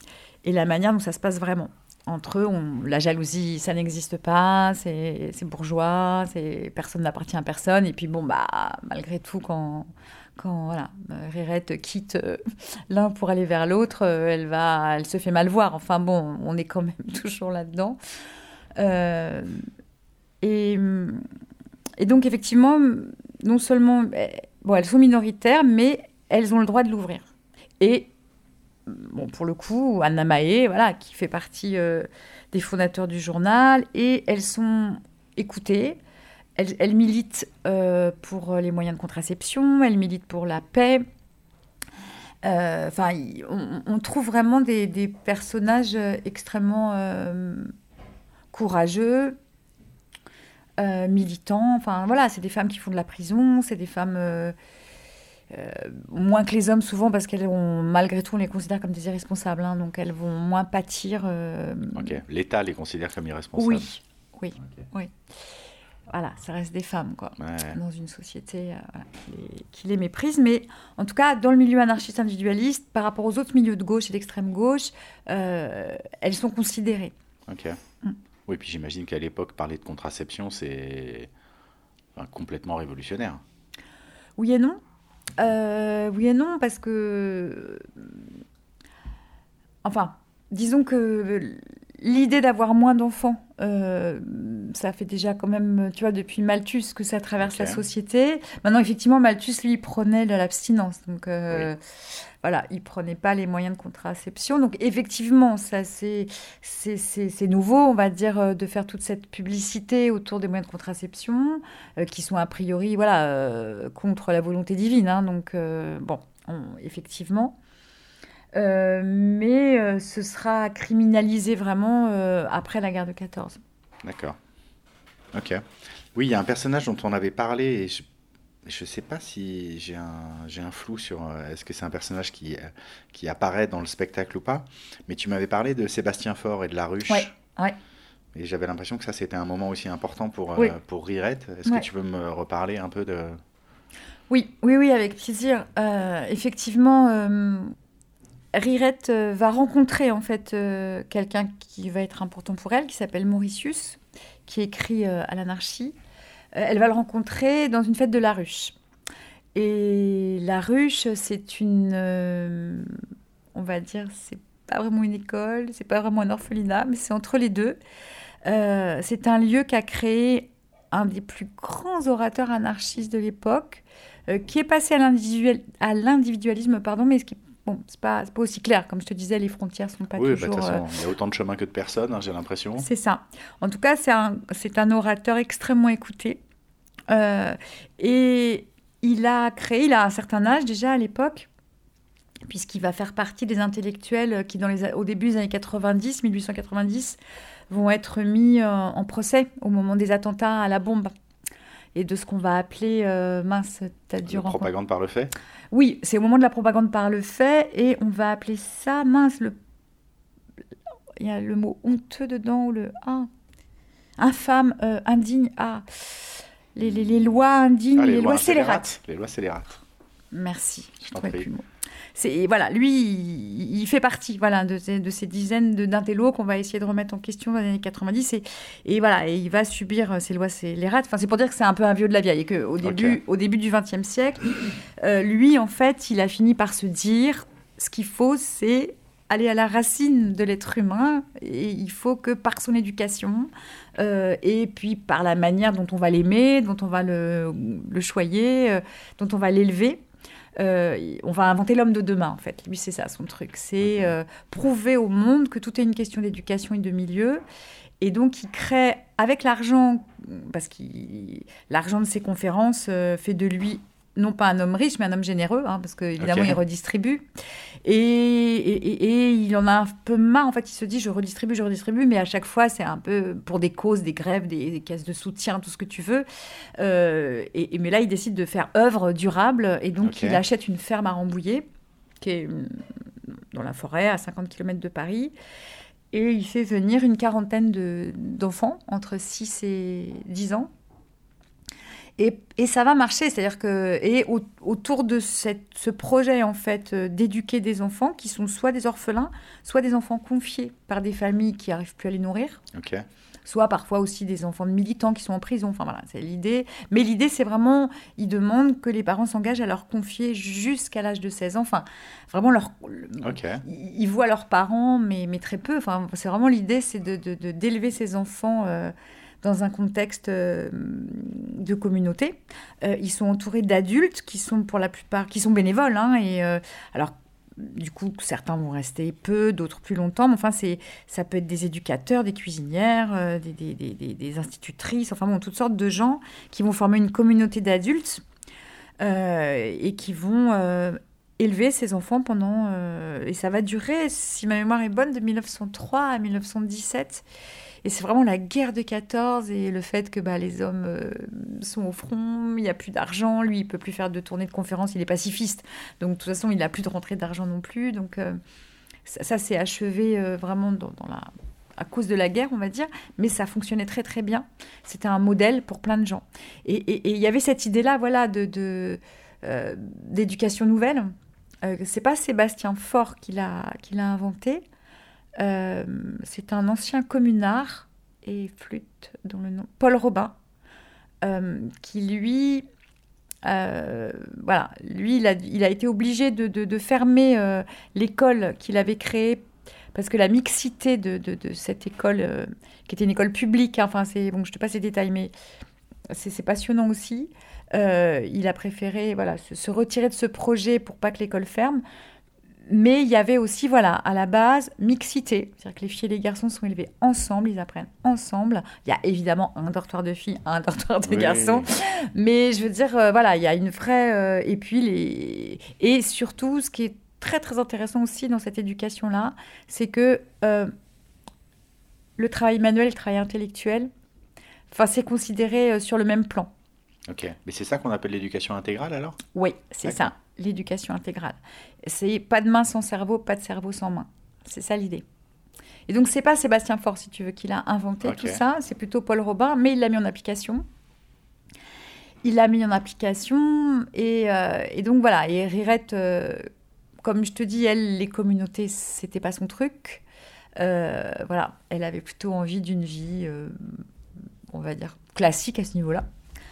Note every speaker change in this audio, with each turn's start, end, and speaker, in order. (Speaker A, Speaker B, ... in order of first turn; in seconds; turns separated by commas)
Speaker A: 0.4-18.0, Speaker A: 18.8-19.6, Speaker A: 20.4-21.2, Speaker A: 22.0-27.3, Speaker A: 27.8-28.1, Speaker A: 28.9-36.0, Speaker A: 36.6-41.0, Speaker A: 42.4-47.7, Speaker A: 48.5-49.4, Speaker A: 50.8-54.5, Speaker A: 55.5-62.2, Speaker B: 62.0-63.9, Speaker A: 63.6-65.1, Speaker A: 66.1-77.1, Speaker B: 67.4-67.8, Speaker B: 77.5-77.8, Speaker B: 78.5-81.3, Speaker B: 82.1-83.4, Speaker A: 84.4-84.8, Speaker A: 85.4-88.1, Speaker A: 89.8-117.6, Speaker B: 97.4-97.8, Speaker A: 118.5-123.6, Speaker B: 124.0-124.4, Speaker B: 125.3-128.1, Speaker B: 128.6-137.3, Speaker A: 137.1-137.8, Speaker B: 138.3-143.4, Speaker A: 144.3-147.7, Speaker A: 148.5-155.9, Speaker A: 156.6-158.8, Speaker A: 159.6-163.0, Speaker A: 163.5-167.8, Speaker A: 168.4-180.8, Speaker B: 180.1-182.9, Speaker A: 182.8-186.4, Speaker A: 187.1-191.5, Speaker A: 192.5-197.2, Speaker A: 197.7-201.1, Speaker A: 201.9-204.7, Speaker B: 204.3-205.3, Speaker A: 205.7-209.6, Speaker A: 211.2-213.3, Speaker A: 214.2-218.9, Speaker B: 216.8-217.2, Speaker B: 217.9-219.8, Speaker A: 220.3-221.6, Speaker B: 221.0-221.5, Speaker A: 222.2-250.0, Speaker B: 232.8-233.2, Speaker A: 250.6-257.4, Speaker B: 253.8-254.1, Speaker A: 258.0-267.2, Speaker B: 266.2-266.6, Speaker A: 267.9-276.2, Speaker A: 276.8-281.6, Speaker B: 280.0-280.4, Speaker A: 282.2-282.8, Speaker A: 283.5-285.3, Speaker A: 286.1-290.7, Speaker A: 292.2-302.6, Speaker B: 302.7-303.0, Speaker A: 303.5-338.2, Speaker B: 313.2-313.6, Speaker A: 339.0-347.2, Speaker A: 347.8-358.4, Speaker A: 359.1-374.6, Speaker A: 375.4-380.4, Speaker A: 381.2-382.6, Speaker A: 383.4-395.3, Speaker A: 396.1-401.8, Speaker A: 402.7-420.7, Speaker B: 411.0-411.7, Speaker A: 422.2-423.9, Speaker A: 424.7-426.5, Speaker B: 427.1-429.2, Speaker A: 429.3-435.0, Speaker A: 435.9-440.6, Speaker B: 438.0-438.4, Speaker A: 442.2-446.5, Speaker A: 447.0-450.0, Speaker A: 450.6-453.8, Speaker A: 454.5-456.0